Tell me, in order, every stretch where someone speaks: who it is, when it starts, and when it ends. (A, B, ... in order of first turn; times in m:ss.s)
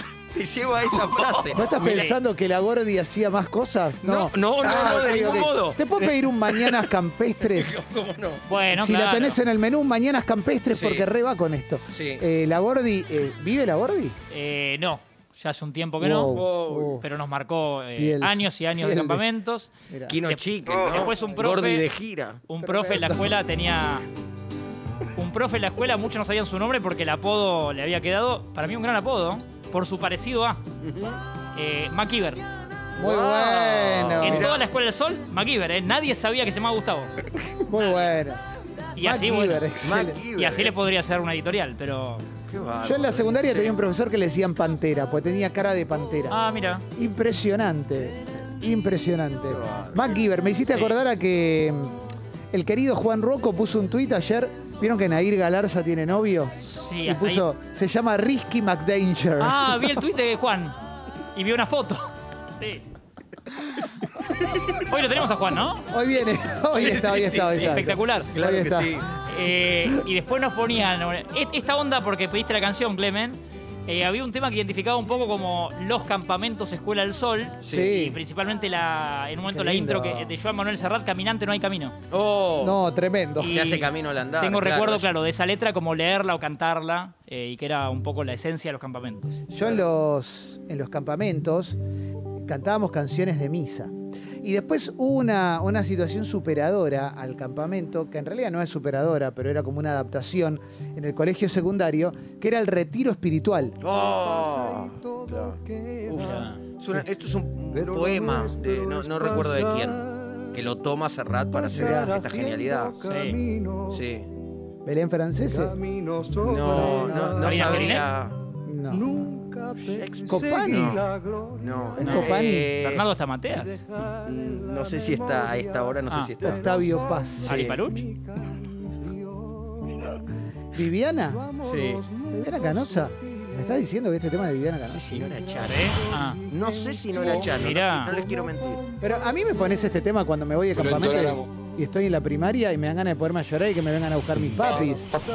0:00.3-0:01.6 A
0:01.5-0:07.8 B
0:01.8-0:02.2 C
0:04.0-0:05.8 A
0:07.5-0:08.4 A
0:08.5-0:09.4 C
0:08.7-0:14.2 B
0:10.7-0:11.1 A
0:11.9-0:12.2 A
0:14.3-0:16.4 C
0:16.0-0:17.0 B
0:16.3-0:17.0 A
0:17.0-0:19.7 C
0:18.0-0:19.2 B
0:19.9-0:20.2 B
0:20.1-0:22.4 A
0:20.3-0:21.8 C
0:22.5-0:24.0 C
0:22.6-0:23.3 B
0:25.2-0:30.6 C
0:30.8-0:31.2 A
0:31.6-0:32.4 C
0:33.0-0:34.5 B
0:33.0-0:34.6 A
0:34.2-0:37.1 C
0:37.7-0:38.4 B
0:37.8-0:38.1 C
0:39.0-0:39.6 C
0:39.0-0:40.2 B
0:39.8-0:40.7 A
0:40.4-0:42.2 C
0:42.5-0:43.9 A
0:42.8-0:46.4 B
0:46.3-0:46.8 C
0:47.0-0:52.0 B
0:49.5-0:50.2 A
0:50.7-0:51.0 C
0:52.5-1:00.0 B
0:56.6-0:57.5 C
0:59.4-1:00.8 C
1:01.4-1:02.8 C
1:04.8-1:05.8 C
1:05.9-1:09.0 B
1:06.7-1:09.1 A
1:07.6-1:08.3 C
1:09.3-1:22.0 C
1:17.6-1:18.2 B
1:19.5-1:20.3 B
1:22.1-1:22.8 A
1:22.6-1:23.7 B
1:23.4-1:23.9 C
1:23.5-1:25.1 A
1:24.4-1:29.4 C
1:29.5-1:31.8 B
1:32.4-1:43.8 B
1:43.8-1:53.0 A
1:46.2-1:46.6 C
1:51.7-1:52.3 B
1:53.0-1:53.4 C
1:53.9-1:54.3 A
1:54.8-1:55.8 B
1:56.4-1:58.4 A
1:56.6-1:57.6 B
1:57.4-1:58.1 C
1:58.7-1:59.3 B
1:59.8-2:01.0 A
2:00.3-2:01.0 B
2:01.6-2:03.0 A
2:02.0-2:02.7 B
2:02.0-2:03.8 C
2:04.2-2:06.7 A
2:06.4-2:07.6 B
2:07.4-2:08.1 C
2:07.5-2:07.8 A
2:10.7-2:11.5 B
2:11.6-2:12.1 A
2:12.3-2:15.3 B
2:14.9-2:18.8 A
2:15.7-2:16.4 C
2:17.4-2:18.1 C
2:19.0-2:25.1 B
2:20.9-2:21.4 A